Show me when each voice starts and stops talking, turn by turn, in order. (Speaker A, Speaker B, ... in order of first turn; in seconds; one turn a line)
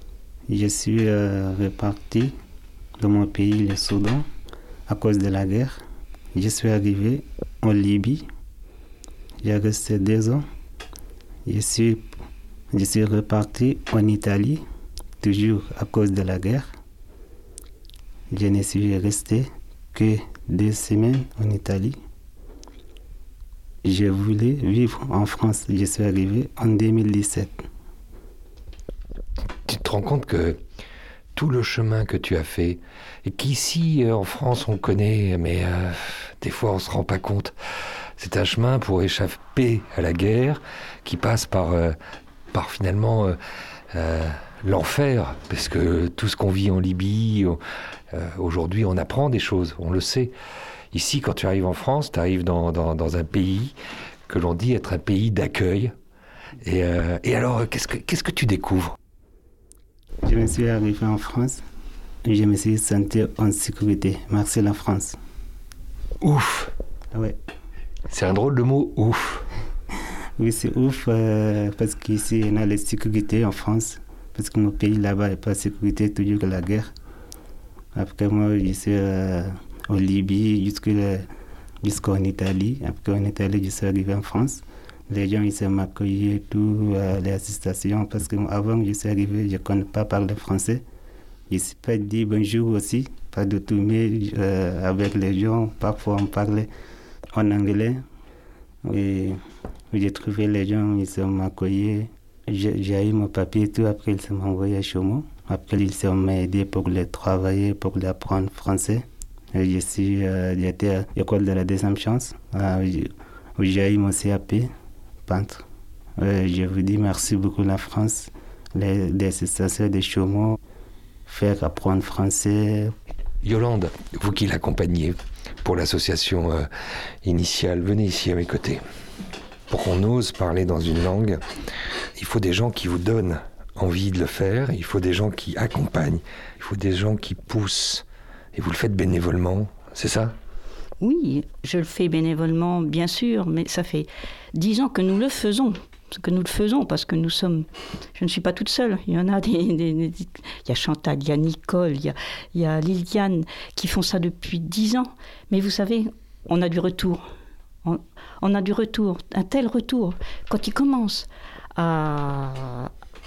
Speaker A: 0.5-2.4
Speaker A: 3.0-4.2
Speaker A: 4.9-5.8
Speaker A: 6.3-8.2
Speaker A: 9.4-10.4
Speaker A: 11.5-12.1
Speaker A: 12.7-14.6
Speaker A: 15.2-16.8
Speaker A: 18.3-22.0
Speaker A: 23.9-27.7
Speaker B: 29.7-30.6
Speaker B: 31.4-37.5
Speaker B: 38.2-42.0
Speaker B: 42.5-43.4
Speaker B: 43.9-47.6
Speaker B: 48.1-50.3
Speaker B: 50.9-53.8
Speaker B: 54.3-56.0
Speaker B: 56.6-59.0
Speaker A: 60.2-61.6
Speaker A: 62.3-65.2
Speaker B: 66.2-66.7
Speaker B: 68.1-69.4
Speaker A: 70.4-76.9
Speaker A: 78.0-81.3
Speaker A: 81.8-90.8
Speaker A: 91.5-96.7
Speaker A: 97.3-98.0
Speaker A: 98.8-99.4
Speaker A: 99.9-114.7
Speaker A: 115.3-115.6
Speaker A: 116.2-120.6
Speaker A: 121.3-122.9
Speaker B: 123.4-126.7
Speaker B: 127.2-128.8
Speaker B: 129.7-131.4
Speaker B: 132.2-140.4
Speaker C: 141.0-157.2
Speaker C: 157.8-162.9